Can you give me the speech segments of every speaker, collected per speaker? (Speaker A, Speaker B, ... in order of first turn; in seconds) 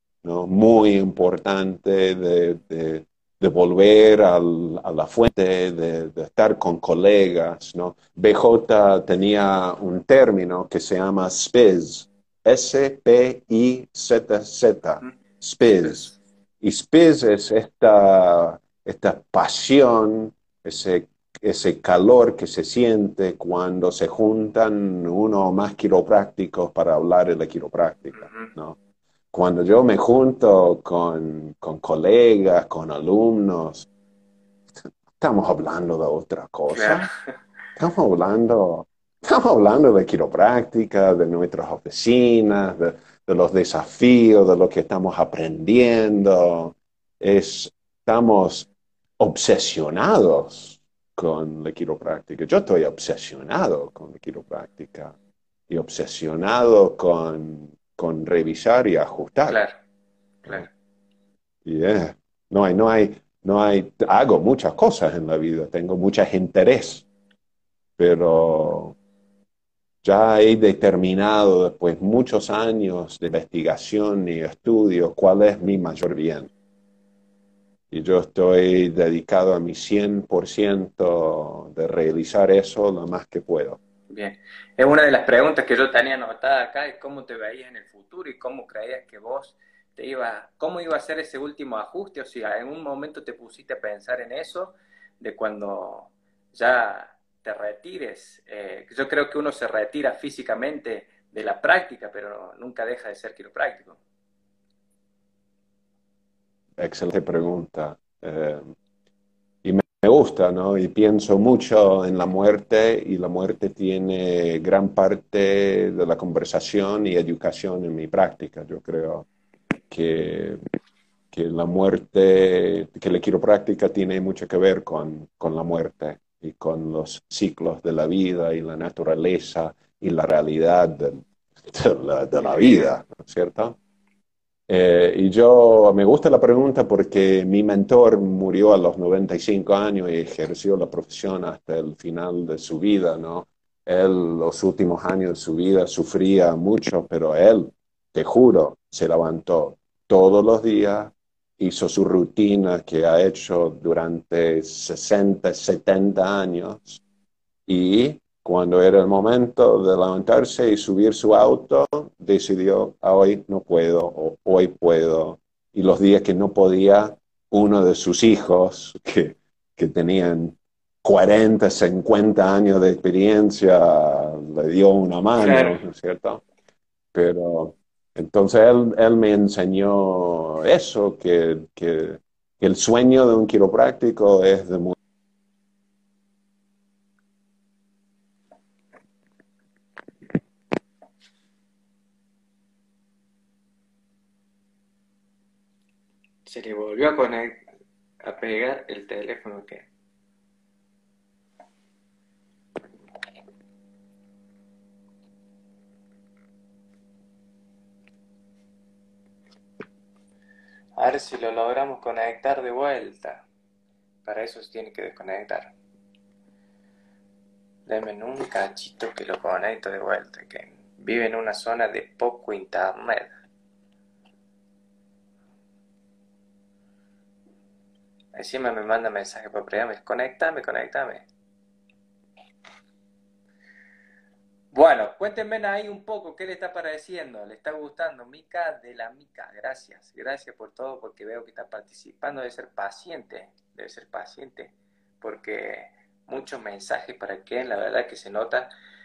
Speaker A: 0.2-28.8, 29.3-33.9, 35.2-37.1, 37.8-55.1, 55.7-59.6, 61.6-67.1, 68.0-69.0, 70.0-76.5, 77.9-83.8, 106.8-108.6, 109.6-119.3, 119.9-120.6, 121.3-133.8, 134.7-157.0, 157.7-176.4, 177.1-184.9
Speaker B: 28.2-28.5, 36.7-37.1, 59.5-59.8, 84.1-104.0, 132.4-132.9, 175.4-175.8, 196.5-197.7, 198.2-199.9, 211.0-213.5, 214.2-215.7, 217.9-223.3, 228.3-231.3, 234.7-248.7